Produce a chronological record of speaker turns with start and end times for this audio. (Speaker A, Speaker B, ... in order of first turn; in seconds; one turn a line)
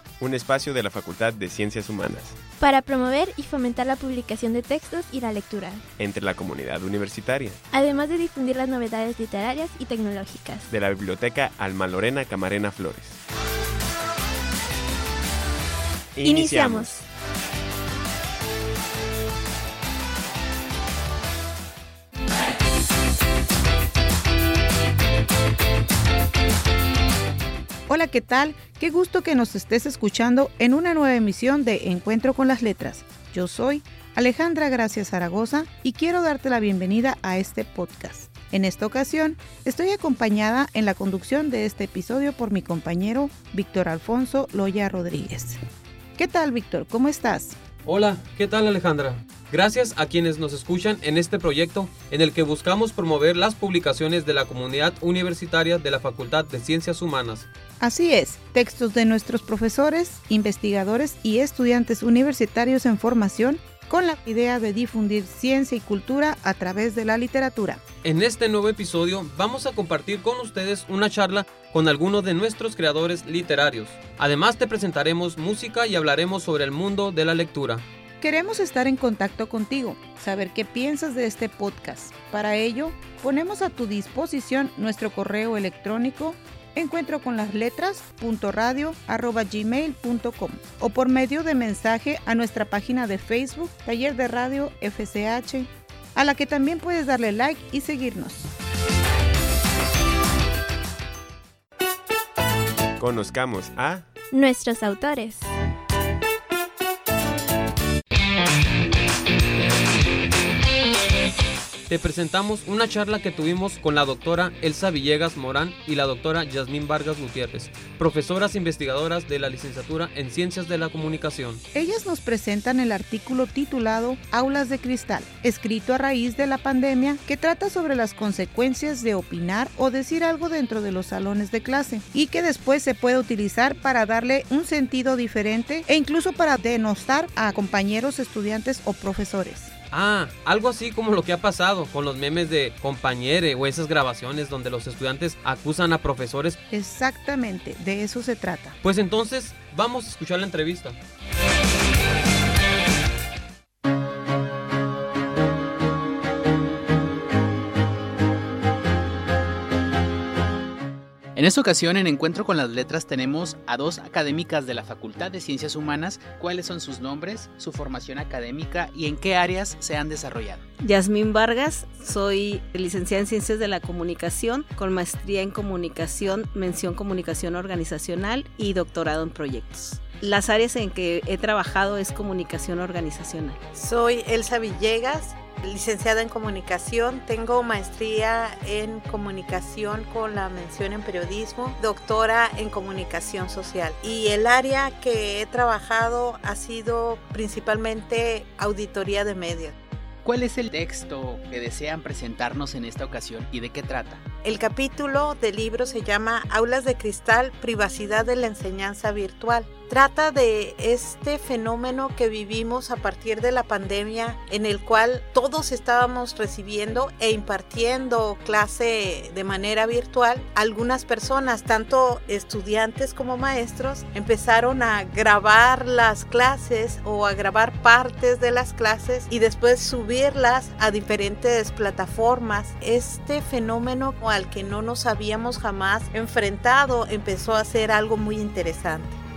Speaker A: 0.2-2.4
Speaker B: 2.6-5.8
Speaker A: 6.0-7.6
Speaker B: 7.7-10.7
Speaker A: 10.7-13.2
Speaker A: 16.1-16.9
Speaker B: 16.2-17.0
Speaker C: 27.9-45.6
Speaker C: 46.2-47.6
Speaker D: 47.8-57.5
Speaker C: 57.8-67.8
Speaker D: 68.0-77.8
Speaker C: 78.2-98.5
Speaker A: 103.0-104.1
Speaker B: 104.3-105.5
Speaker D: 111.9-121.6
Speaker C: 121.7-139.7
Speaker D: 139.9-146.6
Speaker C: 146.7-148.8
Speaker D: 148.8-150.9
Speaker E: 161.3-170.6
Speaker F: 170.8-183.6
Speaker G: 183.7-199.8
Speaker E: 200.2-204.2
Speaker G: 204.4-239.2